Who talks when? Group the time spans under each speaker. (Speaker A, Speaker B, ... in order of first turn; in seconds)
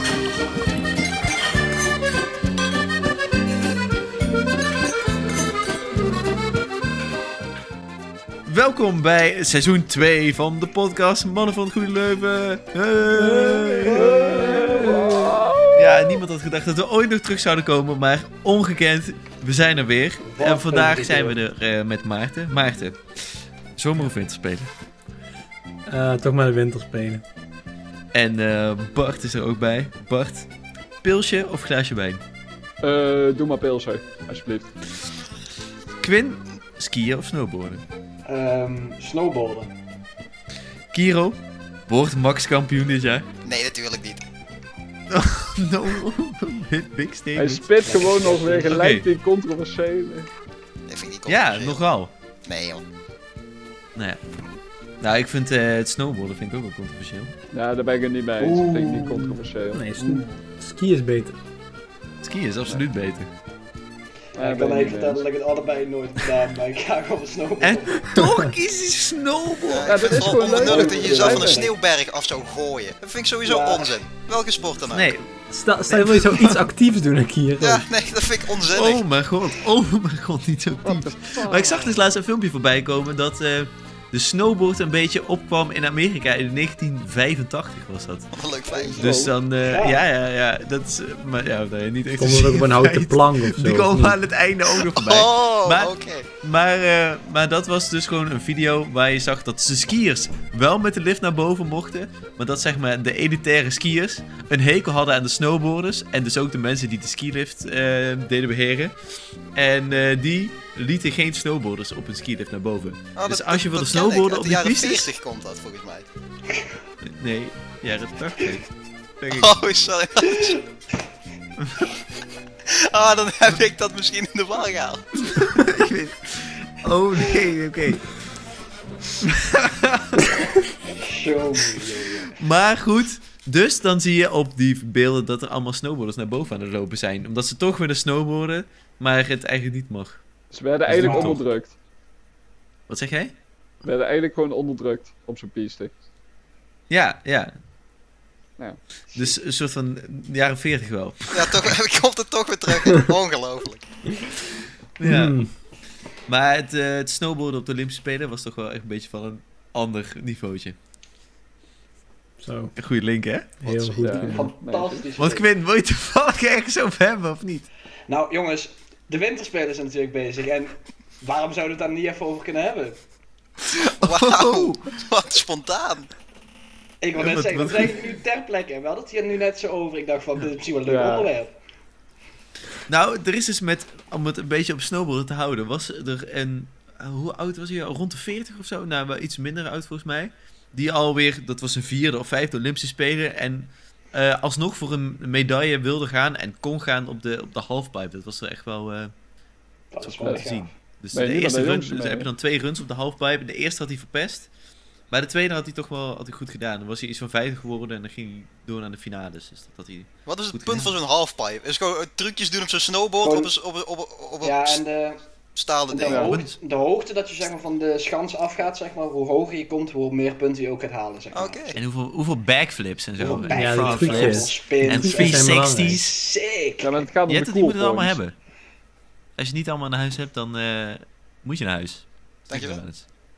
Speaker A: 8.5-15.1, 15.7-23.0, 23.8-24.7, 28.1-30.5, 31.0-32.2, 36.0-37.9, 40.9-43.3, 45.1-47.7, 48.7-49.1, 51.3-52.1, 54.0-54.2, 55.0-57.3, 62.2-63.3, 67.6-70.1, 74.9-76.7, 78.7-88.3, 89.0-109.0, 109.5-115.1, 117.0-118.7, 119.2-119.6, 125.2-128.1, 129.2-130.5, 132.3-140.2, 140.9-141.4, 142.9-143.3, 146.9-147.6, 149.1-151.7, 155.0-155.4, 156.3-160.8, 162.8-163.6, 165.2-167.7, 173.7-174.9, 177.2-178.1, 182.9-199.1, 200.0-204.5, 205.1-210.9, 216.1-216.6, 221.8-226.1, 227.3-228.3, 229.4-233.1
Speaker B: 13.3-16.2, 32.8-34.7, 47.4-50.3, 57.5-59.8, 64.4-65.2, 69.8-71.7, 80.8-82.0, 88.9-89.3, 140.5-141.7, 143.8-145.9, 148.6-149.3, 164.0-165.1, 180.9-181.3, 200.2-200.5, 201.1-202.3, 216.1-216.3, 226.8-228.2
Speaker C: 14.0-15.2, 20.3-21.4, 38.3-39.7, 47.8-48.8, 58.4-59.4, 60.0-60.2, 64.3-68.0, 70.1-71.7, 73.5-74.0, 89.6-90.0, 131.0-132.4, 140.9-141.4, 164.3-165.5, 168.1-173.0, 177.0-181.5, 199.9-200.7, 213.2-213.5, 214.4-215.2, 215.9-221.8, 223.2-227.1
Speaker D: 25.9-27.2, 59.7-61.4, 68.0-68.5, 75.5-77.8, 92.2-94.2, 152.8-153.1, 155.0-155.5, 162.4-162.7, 163.6-164.5, 223.5-226.0
Speaker E: 43.4-44.2, 50.9-51.8, 52.5-52.8, 69.6-75.1, 77.6-79.0, 88.3-89.1, 94.8-96.3, 113.2-116.1, 119.3-120.6, 122.7-125.1, 151.3-153.9, 163.7-163.9, 174.0-176.1, 210.3-214.8, 215.6-216.4, 221.3-221.8, 232.5-232.8